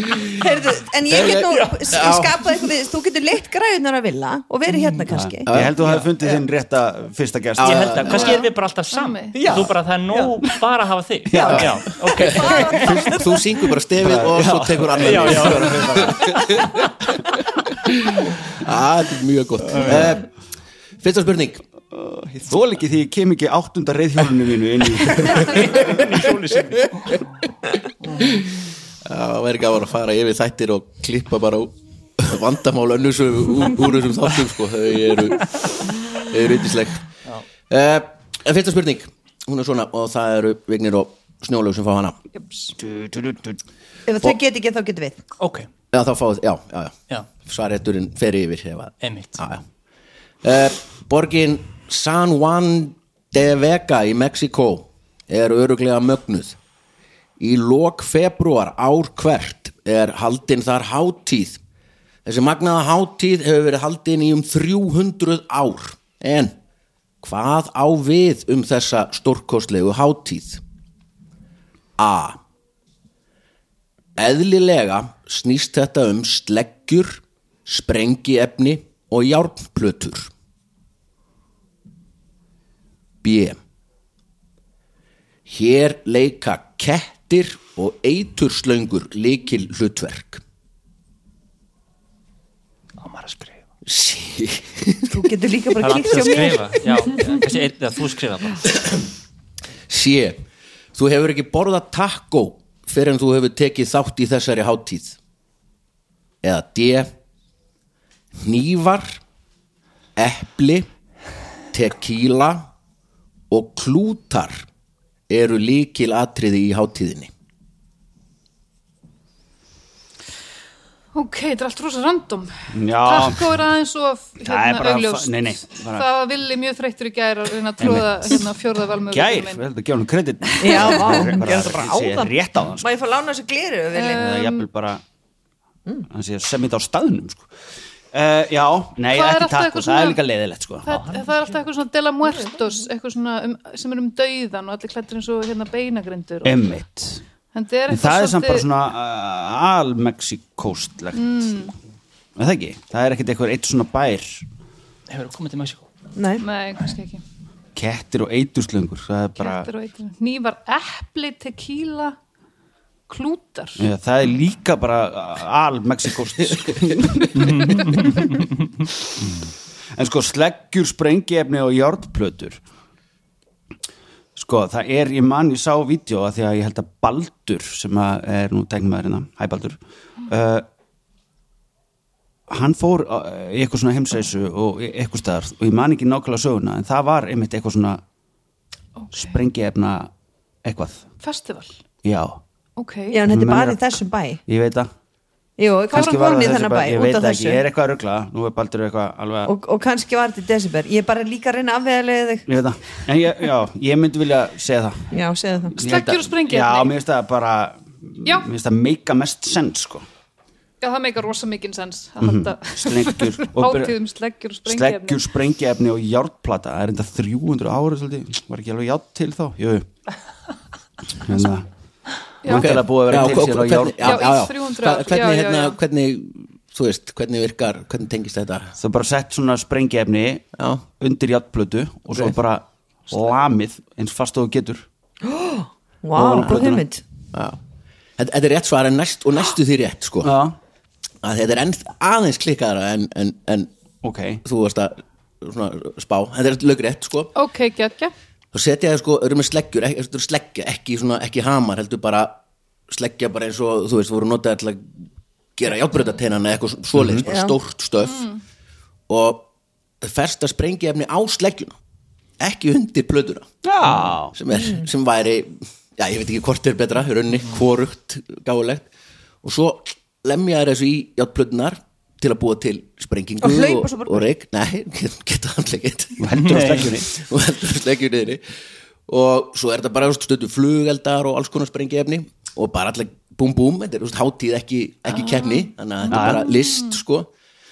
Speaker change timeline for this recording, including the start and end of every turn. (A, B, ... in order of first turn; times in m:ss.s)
0:00.3-0:05.5 A
0:01.1-0:02.4 B
0:05.1-0:08.2 C
0:05.5-0:05.8 B
0:05.8-0:06.1 D
0:07.6-0:08.4 B
0:07.6-0:13.1 D
0:08.1-0:09.4 E
0:09.4-0:10.4 A
0:11.3-0:11.6 C
0:11.4-0:13.0 A
0:12.2-0:16.8 B
0:14.0-0:16.4 C
0:15.0-0:16.3 D
0:18.2-0:20.3 B
0:19.9-0:20.2 C
0:21.0-0:21.6 B
0:21.9-0:26.3 C
0:25.3-0:25.6 B
0:25.6-0:27.1 D
0:29.0-0:37.0 B
0:37.7-0:42.2 B
0:42.8-0:43.6 C
0:44.1-0:45.2 A
0:45.4-0:45.7 D
0:45.9-0:49.6 B
0:49.0-0:49.4 D
0:50.4-0:56.6 B
0:57.4-1:01.6 B
1:02.2-1:06.6 B
1:07.2-1:10.6 B
1:12.0-1:12.4 B
1:14.2-1:20.3 B
1:23.2-1:23.6 B
1:25.5-1:30.4 B
1:33.0-1:33.6 D
1:33.9-1:35.2 B
1:35.1-1:37.4 A
1:35.8-1:38.7 D
1:39.9-1:40.4 B
1:40.9-1:45.2 B
1:46.4-1:47.1 B
1:48.4-1:49.2 B
1:50.2-1:50.9 B
1:51.7-1:52.7 B
1:53.5-1:54.7 B
1:55.3-1:57.3 B
2:01.1-2:09.6 E
2:02.7-2:03.6 C
2:04.4-2:06.1 C
2:07.8-2:08.4 C
2:09.1-2:12.9 C
2:10.6-2:14.2 A
2:10.6-2:11.3 E
2:13.9-2:14.7 E
2:14.2-2:15.0 C
2:16.1-2:17.5 C
2:18.1-2:20.9 C
2:19.1-2:20.2 E
2:20.8-2:26.7 E
2:20.9-2:21.6 D
2:22.2-2:22.7 A
2:26.4-2:27.2 C
2:27.5-2:28.7 E
2:27.9-2:31.6 C
2:31.1-2:31.7 E
2:32.4-2:34.5 C
2:35.1-2:35.8 D
2:36.2-2:36.5 A
2:36.4-2:37.2 E
2:37.8-2:39.7 C
2:39.4-2:42.2 E
2:43.1-2:43.9 E
2:43.8-2:48.3 C
2:47.4-2:48.7 D
2:50.0-2:52.6 C
2:54.4-3:00.7 C
3:02.5-3:08.0 C
3:09.0-3:09.4 E
3:09.1-3:10.1 C
3:10.6-3:11.1 C
3:11.2-3:11.8 E
3:12.0-3:12.4 C
3:12.8-3:13.2 E
3:13.1-3:14.4 A
3:13.2-3:13.8 C
3:14.5-3:14.9 C
3:15.6-3:17.7 A
3:15.9-3:19.5 C
3:19.5-3:22.5 A
3:22.5-3:25.1 C
3:25.1-3:25.8 A
3:25.8-3:30.1 C
3:25.8-3:27.0 E
3:28.2-3:28.5 E
3:30.8-3:35.3 E
3:32.2-3:34.0 C
3:34.6-3:39.9 C
3:41.2-3:41.6 C
3:42.4-3:42.8 E
3:42.4-3:44.3 C
3:42.5-3:48.7 B
3:44.0-3:45.8 E
3:48.8-3:50.4 C
3:50.6-3:50.8 B
3:51.0-3:54.9 C
3:55.2-3:57.0 A
3:56.1-3:56.8 C
3:57.3-3:57.6 B
3:58.2-4:00.3 B
4:00.2-4:00.6 C
4:01.2-4:03.7 B
4:04.0-4:04.4 C
4:04.4-4:07.3 B
4:07.4-4:08.1 E
4:08.5-4:14.9 B
4:15.6-4:18.3 B
4:17.0-4:17.3 C
4:17.3-4:17.6 A
4:18.1-4:18.4 E
4:19.1-4:19.5 B
4:20.0-4:21.8 B
4:22.4-4:23.6 B
4:23.6-4:24.4 C
4:24.3-4:28.9 B
4:24.5-4:24.8 A
4:29.4-4:38.4 B
4:33.4-4:34.2 A
4:36.2-4:37.1 C
4:36.3-4:36.9 D
4:39.1-4:47.3 B
4:46.1-4:46.5 C
4:46.1-4:47.0 E